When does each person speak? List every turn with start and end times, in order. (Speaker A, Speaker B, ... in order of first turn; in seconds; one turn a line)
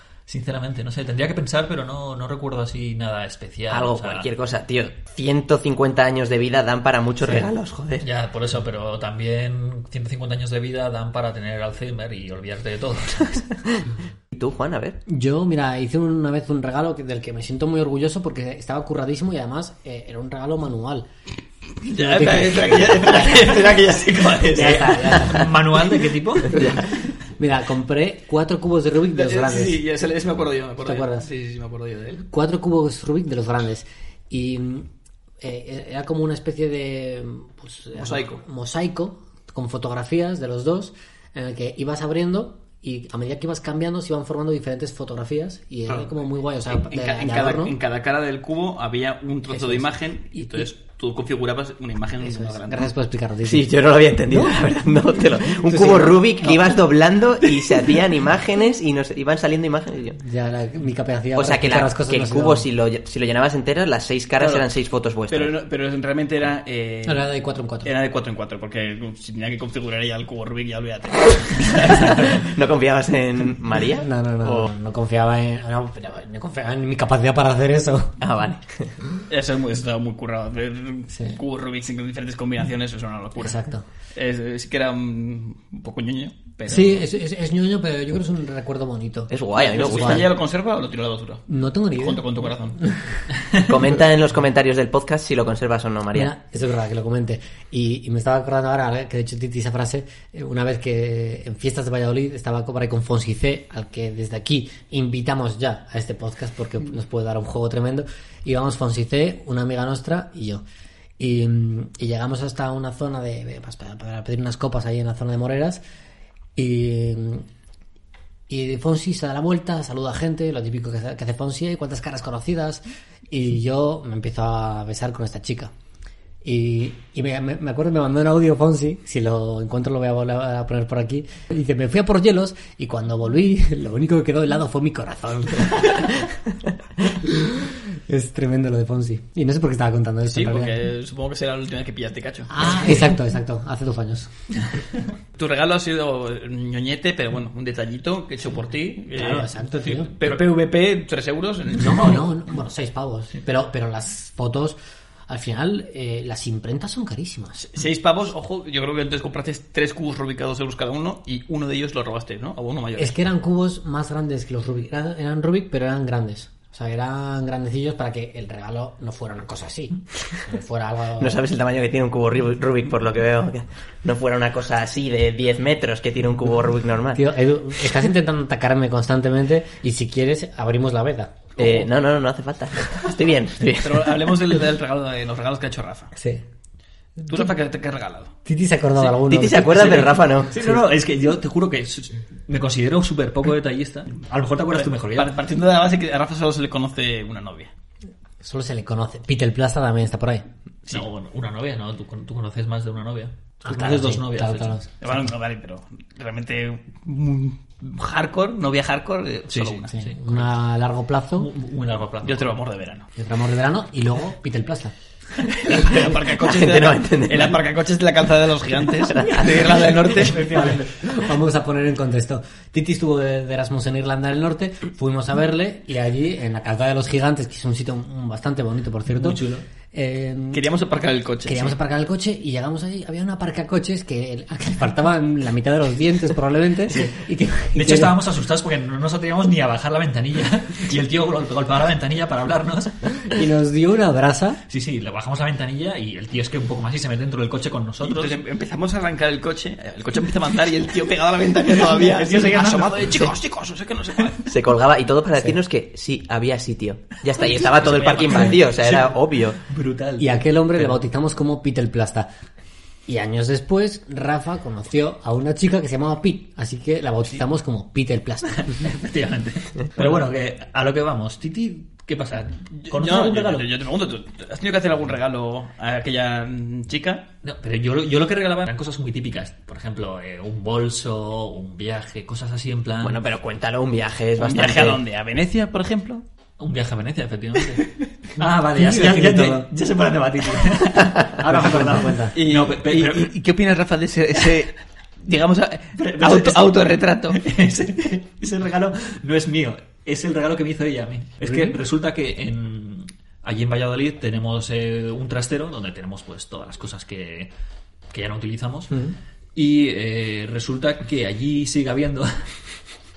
Speaker A: 0.3-4.2
Speaker B: 3.7-8.1
Speaker A: 8.0-13.6
Speaker B: 14.3-15.0
Speaker C: 15.1-21.1
Speaker D: 21.8-25.5
Speaker C: 22.0-23.6
Speaker C: 24.5-25.5
Speaker A: 24.6-26.6
Speaker B: 26.5-26.9
Speaker C: 27.4-29.8
Speaker D: 29.1-32.2
Speaker C: 30.8-31.3
Speaker C: 32.3-34.9
Speaker C: 35.4-47.8
Speaker D: 38.0-38.4
Speaker D: 45.9-46.1
Speaker D: 46.6-52.9
Speaker C: 49.5-50.7
Speaker C: 52.2-53.7
Speaker B: 53.5-60.2
Speaker C: 54.3-54.5
Speaker C: 55.6-56.5
Speaker C: 60.2-62.6
Speaker B: 61.4-65.5
Speaker D: 64.4-64.7
Speaker D: 65.3-67.3
Speaker C: 67.0-67.9
Speaker D: 67.8-72.5
Speaker B: 72.1-74.1
Speaker C: 74.0-78.2
Speaker D: 74.4-74.7
Speaker B: 78.2-79.0
Speaker D: 79.3-83.6
Speaker C: 81.1-81.4
Speaker C: 83.4-83.8
Speaker D: 84.1-87.0
Speaker C: 86.7-89.3
Speaker B: 89.3-90.3
Speaker D: 89.5-92.8
Speaker C: 89.9-90.2
Speaker C: 91.5-92.2
Speaker C: 92.8-93.2
Speaker B: 93.7-96.3
Speaker C: 96.1-110.6
Speaker C: 111.2-115.8
Speaker C: 116.5-117.5
Speaker C: 118.5-125.7
Speaker C: 126.4-136.1
Speaker C: 137.1-137.4
Speaker C: 138.1-140.7
Speaker D: 140.3-143.0
Speaker C: 142.5-144.3
Speaker D: 145.3-152.2
Speaker C: 149.1-150.1
Speaker C: 151.8-157.6
Speaker D: 157.6-163.2
Speaker C: 163.0-171.4
Speaker B: 171.2-177.3
Speaker C: 177.1-181.8
Speaker B: 181.6-184.4
Speaker D: 183.8-186.1
Speaker C: 186.2-186.4
Speaker D: 187.2-188.3
Speaker C: 188.5-189.9
Speaker B: 189.2-190.5
Speaker A: 189.8-195.3
Speaker D: 194.7-197.7
Speaker C: 198.4-200.5
Speaker A: 200.9-205.1
Speaker C: 203.6-204.9
Speaker D: 205.0-209.9
Speaker A: 209.5-210.5
Speaker C: 209.9-211.5
Speaker A: 211.4-212.6
Speaker D: 212.2-213.1
Speaker C: 213.2-214.9
Speaker D: 215.6-220.9
Speaker B: 215.9-217.6
Speaker B: 219.1-220.0
Speaker A: 220.1-220.8
Speaker C: 220.6-230.6
Speaker A: 229.1-229.6
Speaker D: 230.5-231.8
Speaker C: 231.4-238.1
Speaker A: 237.8-243.3
Speaker C: 243.3-244.6
Speaker A: 244.7-248.4
Speaker D: 248.0-254.5
Speaker A: 252.1-253.3
Speaker B: 254.5-259.6
Speaker D: 257.4-258.6
Speaker A: 257.4-261.0
Speaker C: 260.2-262.3
Speaker C: 263.1-268.7
Speaker A: 268.7-273.7
Speaker D: 272.9-277.3
Speaker A: 277.4-283.2
Speaker B: 283.0-285.0
Speaker D: 284.4-286.2
Speaker A: 286.6-293.3
Speaker C: 288.8-289.6
Speaker C: 291.5-292.4
Speaker D: 292.4-297.4
Speaker A: 296.0-307.5
Speaker A: 308.1-308.9
Speaker C: 308.9-309.1
Speaker A: 309.5-312.8